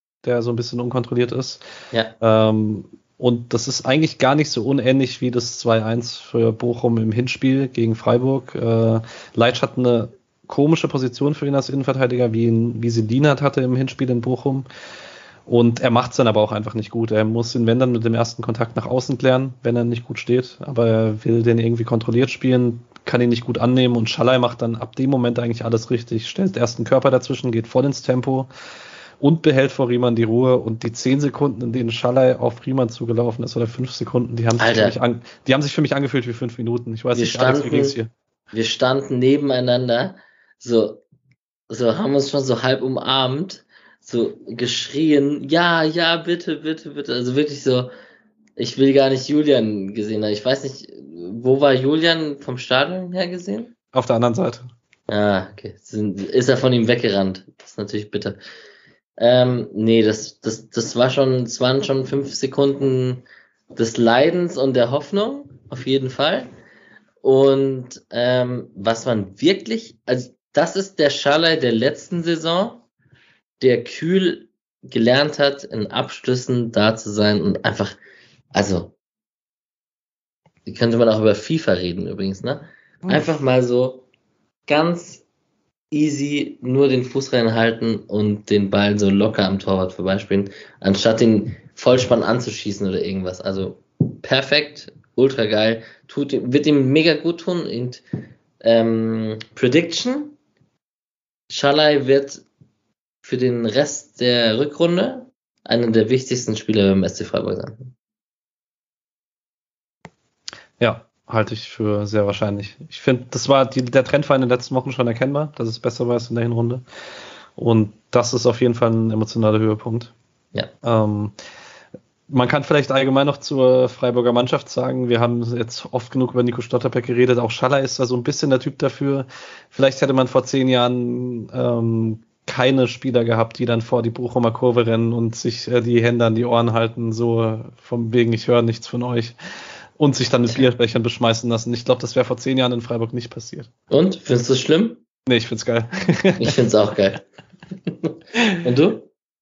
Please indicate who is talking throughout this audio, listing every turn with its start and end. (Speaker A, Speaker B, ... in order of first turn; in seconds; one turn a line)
Speaker A: 0.2-1.6
Speaker A: 2.2-14.7
Speaker A: 15.5-28.5
Speaker A: 29.2-38.1
Speaker B: 34.6-35.0
Speaker B: 37.1-38.0
Speaker B: 38.5-41.0
Speaker B: 41.7-47.9
Speaker B: 48.6-53.7
Speaker A: 53.9-54.7
Speaker B: 55.1-58.4
Speaker B: 59.2-66.5
Speaker B: 67.2-72.8
Speaker B: 73.6-78.0
Speaker B: 78.5-78.9
Speaker B: 80.7-84.0
Speaker B: 84.7-85.2
Speaker B: 85.9-98.0
Speaker B: 98.6-100.4
Speaker B: 101.5-102.4
Speaker B: 103.2-107.9
Speaker A: 110.8-116.8
Speaker A: 117.6-120.1
Speaker A: 120.8-121.3
Speaker A: 122.3-139.3
Speaker A: 140.0-143.7
Speaker B: 143.9-145.0
Speaker A: 145.3-146.6
Speaker B: 146.4-147.2
Speaker B: 148.0-149.1